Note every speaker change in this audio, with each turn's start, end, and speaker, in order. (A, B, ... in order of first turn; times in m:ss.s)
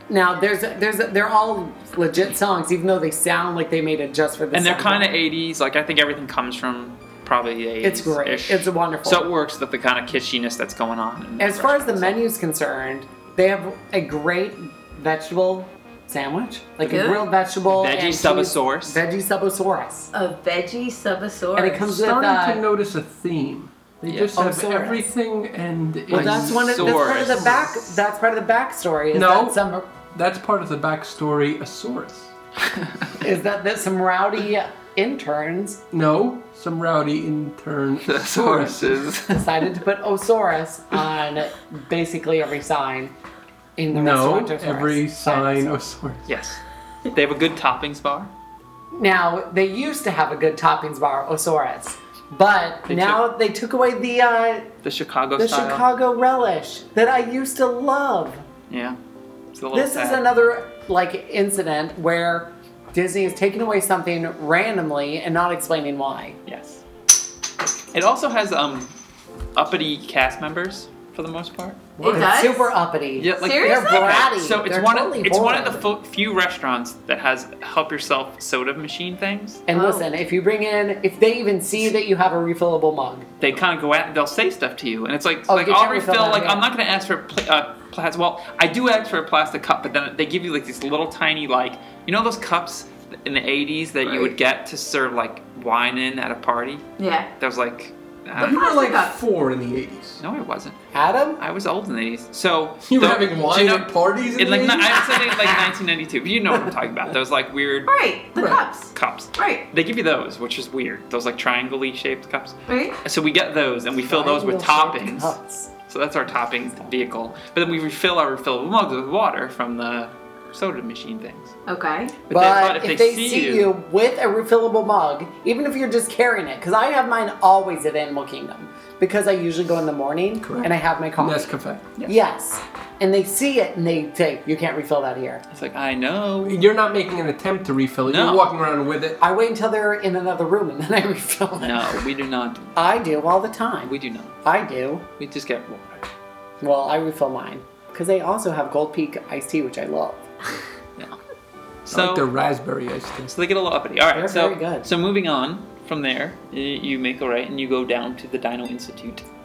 0:00.1-0:05.1 A
0:04.5-0:12.2 B
0:07.8-0:09.2 A
0:11.4-0:20.1 A
0:16.8-0:17.3 C
0:17.7-0:19.0 B
0:20.1-0:21.9 C
0:21.6-0:22.6 A
0:21.9-0:27.7 D
0:24.1-0:24.4 B
0:24.4-0:25.1 A
0:26.1-0:29.9 A
0:26.1-0:27.8 B
0:29.1-0:29.6 D
0:30.1-0:32.3 D
0:32.8-0:33.2 B
0:33.2-0:35.8 A
0:35.9-0:39.0 D
0:38.0-0:39.6 B
0:39.3-0:43.1 A
0:43.8-0:45.8 A
0:43.9-0:46.3 D
0:46.3-0:48.3 B
0:48.9-0:54.7 A
0:52.9-0:53.2 B
0:54.8-0:55.9 B
0:55.4-0:58.4 A
0:58.7-0:59.0 B
0:59.5-1:00.3 B
0:59.7-1:06.4 A
1:06.5-1:06.8 B
1:07.9-1:08.9 B
1:09.6-1:11.9 B
1:12.0-1:15.9 A
1:12.0-1:12.7 C
1:12.0-1:12.3 D
1:13.2-1:19.6 B
1:13.4-1:14.2 C
1:19.7-1:23.3 A
1:19.7-1:20.1 C
1:23.4-1:38.6 B
1:25.5-1:26.6 A
1:34.0-1:34.3 A
1:37.0-1:37.3 C
1:38.4-1:40.2 D
1:38.4-1:39.2 C
1:40.2-1:40.8 B
1:40.9-1:41.4 A
1:41.4-1:47.9 B
1:42.8-1:45.2 D
1:45.2-1:45.5 A
1:47.9-1:49.6 C
1:48.4-1:48.6 D
1:48.9-1:55.4 B
1:52.7-1:53.0 C
1:54.1-1:55.7 A
1:55.9-2:01.6 B
2:01.7-2:02.2 C
2:02.3-2:03.7 B
2:02.3-2:15.4 A
2:10.4-2:11.8 D
2:15.5-2:16.6 B
2:16.4-2:19.2 D
2:18.1-2:18.5 B
2:19.2-2:21.9 A
2:21.6-2:22.8 B
2:22.8-2:25.0 A
2:23.9-2:24.4 B
2:25.2-2:26.1 B
2:26.6-2:30.2 A
2:31.8-2:32.3 B
2:31.9-2:33.3 D
2:33.3-2:39.2 B
2:34.1-2:34.9 A